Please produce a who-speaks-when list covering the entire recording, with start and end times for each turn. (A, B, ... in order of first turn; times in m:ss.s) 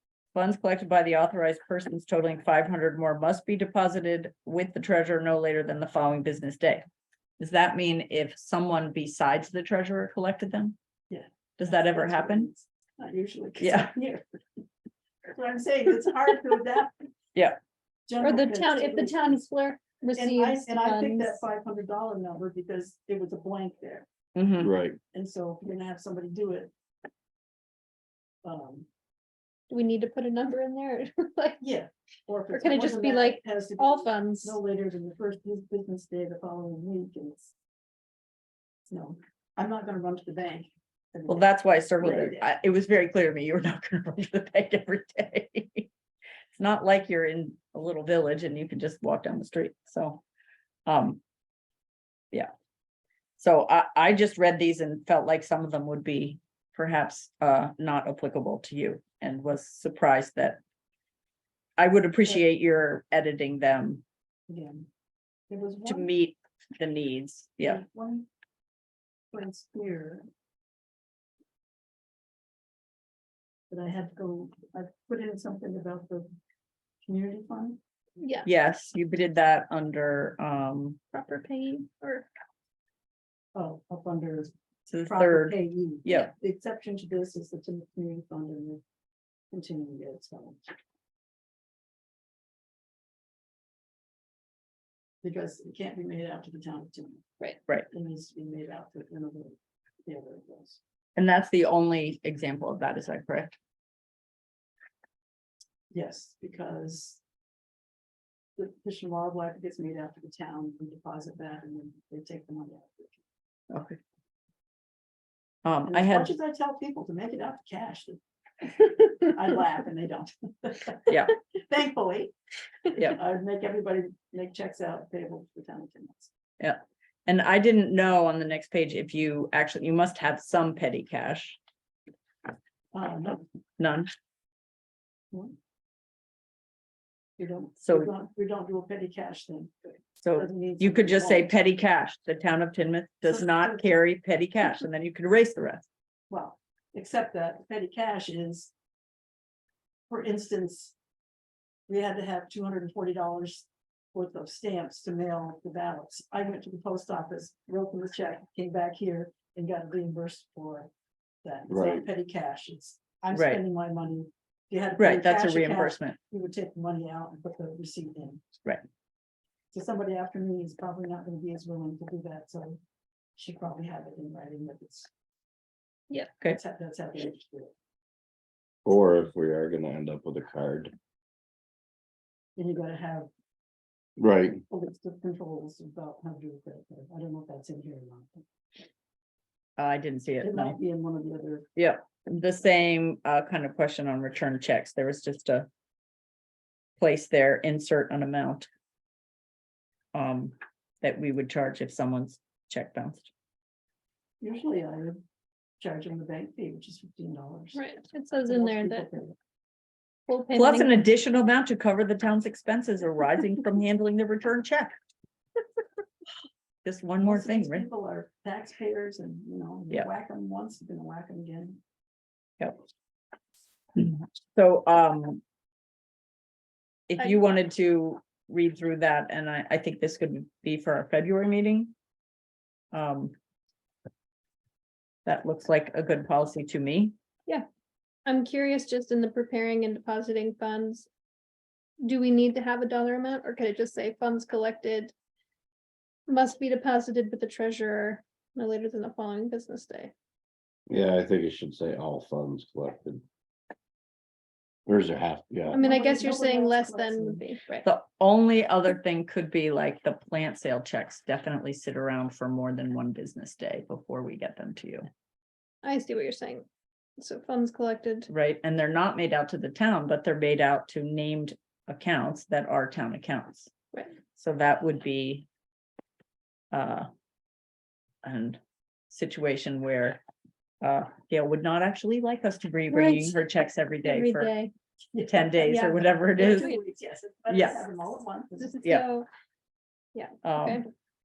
0:00.3-0:06.8 A
0:07.4-0:10.8 A
0:11.1-0:14.2 B
0:11.6-0:12.5 A
0:13.6-0:13.9 A
0:15.3-0:17.0 B
0:18.1-0:19.4 B
0:18.2-0:21.4 C
0:20.1-0:24.1 B
0:24.4-0:24.7 A
0:24.6-0:25.0 D
0:25.1-0:26.7 B
0:28.4-0:28.9 B
0:29.7-0:31.6 C
0:31.6-0:37.5 B
0:32.5-0:34.6 C
0:38.9-0:42.4 B
0:41.3-0:45.9 A
0:46.6-0:50.2 A
0:50.9-0:51.2 A
0:53.4-1:00.6 A
1:01.8-1:04.0 A
1:04.5-1:04.9 B
1:05.5-1:06.1 B
1:05.9-1:07.8 A
1:07.6-1:08.3 B
1:09.3-1:10.3 B
1:13.7-1:16.3 B
1:17.0-1:17.8 B
1:18.2-1:18.5 C
1:18.4-1:21.0 A
1:21.1-1:22.3 C
1:23.6-1:24.5 B
1:24.9-1:26.3 A
1:25.0-1:28.8 B
1:29.5-1:30.6 B
1:35.2-1:37.3 B
1:37.9-1:40.8 B
1:41.2-1:43.6 A
1:45.9-1:47.2 B
1:48.6-1:53.2 B
1:53.7-1:54.0 A
1:55.6-1:56.3 A
1:55.9-2:02.4 B
2:01.1-2:01.4 A
2:03.0-2:06.3 B
2:06.6-2:11.6 A
2:12.9-2:13.4 B
2:13.8-2:14.1 A
2:17.4-2:21.5 B
2:17.8-2:18.1 A
2:20.2-2:25.8 A
2:23.2-2:23.9 B
2:26.3-2:28.7 B
2:30.1-2:30.9 B
2:31.9-2:40.9 B
2:41.4-2:48.4 B
2:41.7-2:42.1 D
2:43.3-2:43.6 A
2:45.0-2:46.2 A
2:49.7-2:52.8 B
2:53.4-2:55.1 B
2:56.5-2:57.7 B
2:58.8-3:00.9 D
3:02.6-3:03.3 B
3:04.2-3:04.6 D
3:04.7-3:08.5 B
3:09.8-3:10.8 A
3:10.4-3:11.7 B
3:11.8-3:15.7 A
3:17.0-3:18.7 A
3:20.1-3:23.3 A
3:24.4-3:25.2 B
3:25.8-3:27.8 B
3:27.8-3:29.1 C
3:28.5-3:29.4 B
3:30.3-3:31.0 C
3:30.5-3:35.0 A
3:36.8-3:37.9 A
3:37.2-3:41.8 B
3:44.0-3:45.4 A
3:47.1-3:51.9 A
3:52.9-3:53.4 A
3:55.3-3:57.1 A
3:58.3-4:01.1 C
4:02.0-4:05.1 C
4:06.3-4:10.1 C
4:10.9-4:13.2 D
4:14.9-4:15.8 D
4:15.7-4:17.9 C
4:15.7-4:17.4 B
4:17.8-4:25.0 A
4:25.8-4:26.6 C
4:27.2-4:28.3 C
4:28.3-4:33.7 A
4:34.4-4:35.5 A
4:36.7-4:37.1 A
4:38.2-4:38.6 A
4:39.1-4:40.2 A
4:40.8-4:44.5 A
4:42.9-4:43.4 C
4:44.0-4:44.7 C
4:45.1-4:48.7 B
4:45.3-4:46.8 A
4:46.4-4:46.8 C
4:47.5-4:47.8 A
4:48.6-4:49.3 C
4:50.2-4:50.9 C
4:50.4-4:50.8 A